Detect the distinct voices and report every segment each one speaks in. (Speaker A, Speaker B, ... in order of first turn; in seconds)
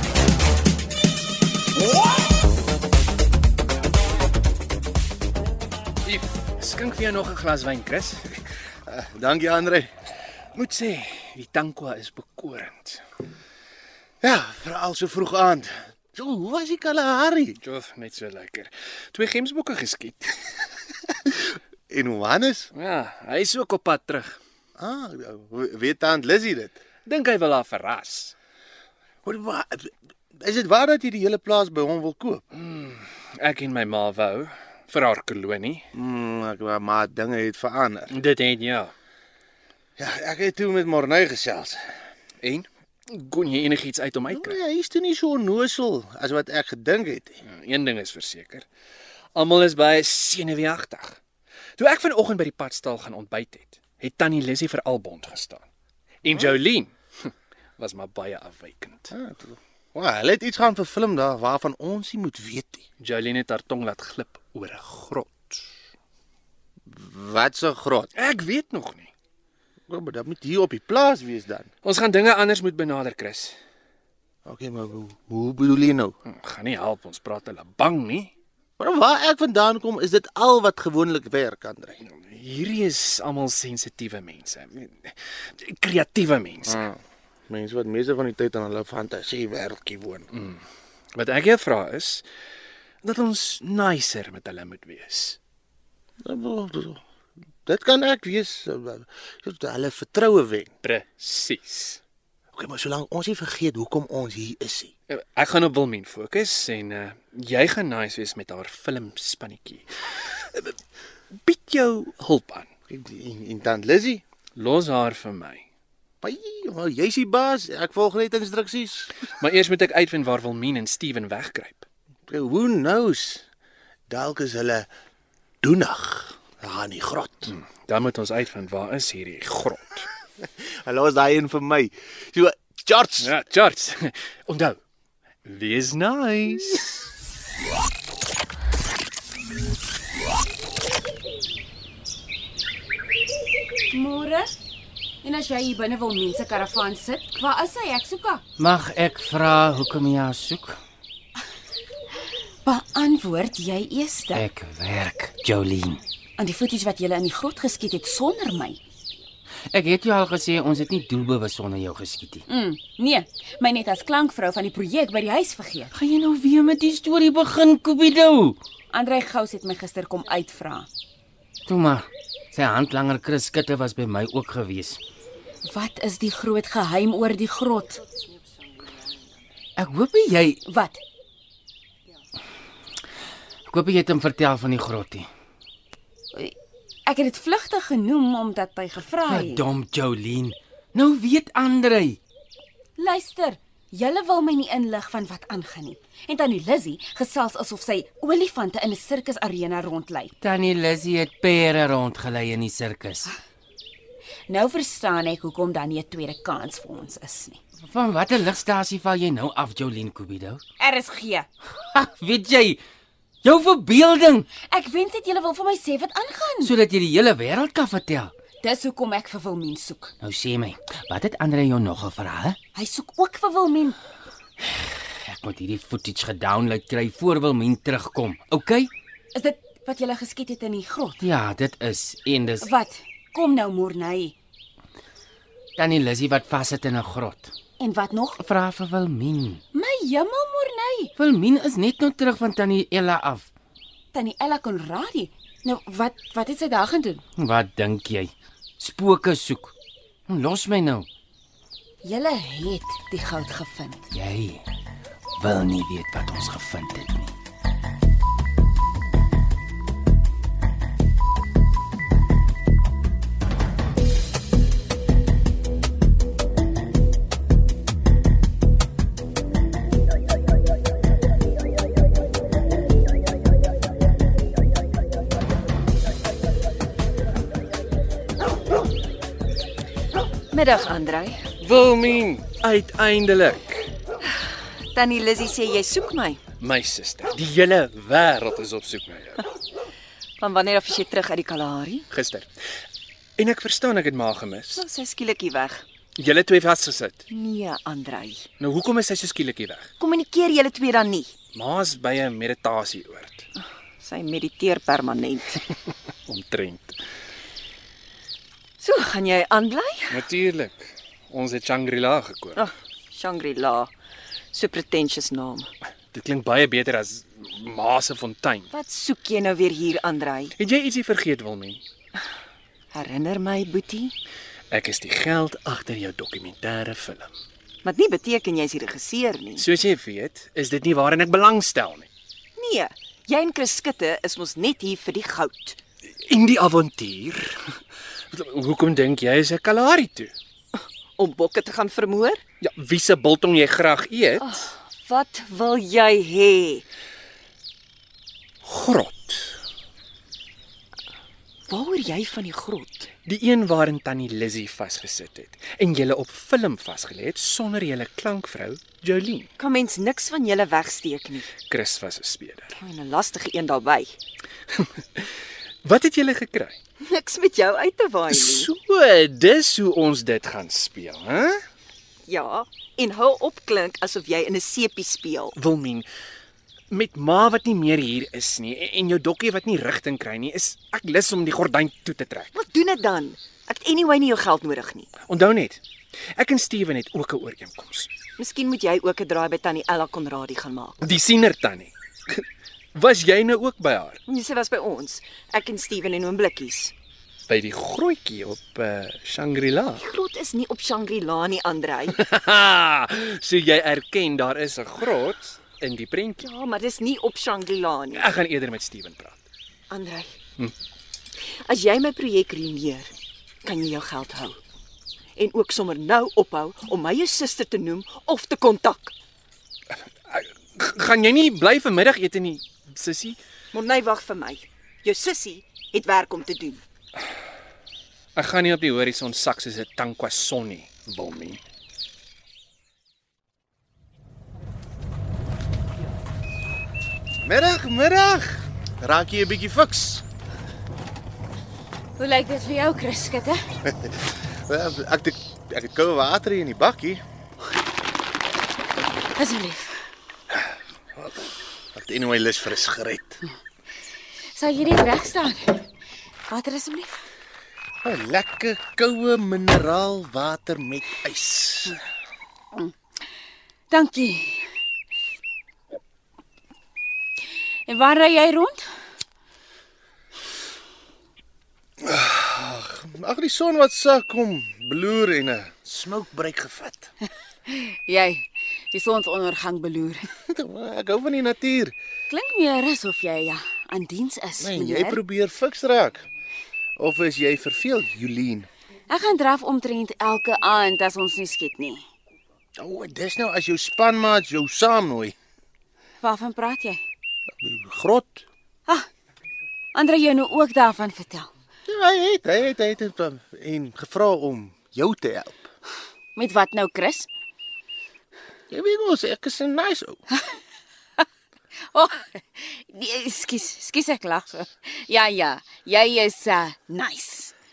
Speaker A: 6.0-8.4, 10.6-13.0, 17.6-20.7, 22.7-24.4, 27.1-28.4, 32.5-35.9, 38.1-38.9, 42.4-44.6, 47.5-48.7, 49.4-51.2, 51.8-55.6, 56.2-59.1, 63.0-65.7, 68.2-69.1, 71.8-73.6, 76.3-78.3, 82.0-86.8, 90.3-90.6, 91.1-92.2, 93.0-95.4, 100.8-102.0, 105.1-110.8, 111.4-112.7, 114.6-115.7, 119.3-121.9, 127.5-130.1, 133.2-134.8, 135.4-137.1, 281.6-283.9, 286.6-289.5, 292.1-292.5, 293.4-294.9, 296.2-297.3, 298.6-299.9, 301.5-303.5, 306.3-307.0, 310.1-312.6, 316.1-318.7, 320.6-321.8, 324.7-327.3, 329.6-332.1, 336.2-337.8, 338.3-340.3, 342.6-344.7, 348.6-349.6, 353.2-359.5, 361.6-362.8, 364.7-365.3, 365.8-366.8, 368.3-371.6, 375.6-376.1, 376.9-382.6, 385.2-385.8, 386.4-388.1, 391.0-394.2, 397.5-400.1, 402.1-406.5, 408.1-409.4, 420.3-423.4, 428.4-431.6
Speaker B: 8.9-9.9, 14.2-17.6, 21.9-22.7, 24.8-26.8, 29.2-32.4, 35.9-38.1, 40.0-41.8, 44.3-47.4, 59.1-62.9, 66.9-68.1, 69.9-71.7, 74.5-76.2, 78.8-82.0, 86.7-90.3, 96.2-97.0, 97.7-100.7, 102.5-104.9, 112.9-114.2, 116.2-119.1, 122.3-123.5, 124.1-124.9, 125.6-127.5, 130.4-133.3, 437.4-440.2, 443.9-447.2, 451.9-453.4, 458.0-462.0, 472.0-477.1, 480.5-481.9, 484.6-486.2, 487.0-488.7, 492.8-495.3, 497.6-498.4, 501.9-505.6, 508.7-510.2
Speaker C: 143.9-144.5, 145.2-148.4, 152.6-154.5, 156.4-158.8, 162.5-165.9, 168.9-170.9, 175.7-178.0, 180.7-181.0, 187.1-189.6, 193.0-200.3, 204.5-207.6, 210.8-211.5, 214.6-216.8, 218.6-220.1, 222.8-224.0, 229.3-231.2, 232.6-234.3, 237.8-238.4, 239.7-241.1, 244.1-247.2, 252.0-254.1, 442.2-443.6, 449.4-450.0, 454.5-455.8, 456.5-457.2, 463.9-464.7, 467.9-468.8, 477.7-480.3, 482.3-485.2, 489.1-492.1, 496.2-497.0, 499.9-501.5, 506.4-507.3, 511.9-517.5
Speaker D: 148.6-150.8, 154.3-156.0, 159.7-162.4, 165.9-168.6, 171.7-175.0, 179.8-180.6, 183.7-185.3, 189.3-192.2, 200.4-203.3, 207.8-210.6, 211.9-212.8, 213.4-214.5, 216.6-218.3, 220.2-222.6, 224.6-228.9, 231.2-232.7, 235.8-237.5, 238.4-239.6, 241.2-243.5, 247.4-249.7, 250.3-251.1, 254.1-254.7, 255.4-257.4
Speaker E: 280.5-281.6, 284.9-286.4, 290.4-292.1, 294.8-295.9, 297.3-298.5, 300.0-301.4, 303.6-305.6, 308.8-310.2, 312.6-313.9, 314.5-315.7, 318.7-320.5, 322.9-324.2, 327.8-329.6, 332.6-335.8, 340.8-342.4, 344.4-346.9, 351.7-353.1, 359.6-361.6, 362.8-364.2, 367.0-368.7, 372.3-375.6, 382.5-385.2, 388.4-391.0, 394.3-396.9, 400.0-402.2, 406.4-408.3, 409.9-410.4, 411.5-414.6, 415.4-419.1, 423.7-426.8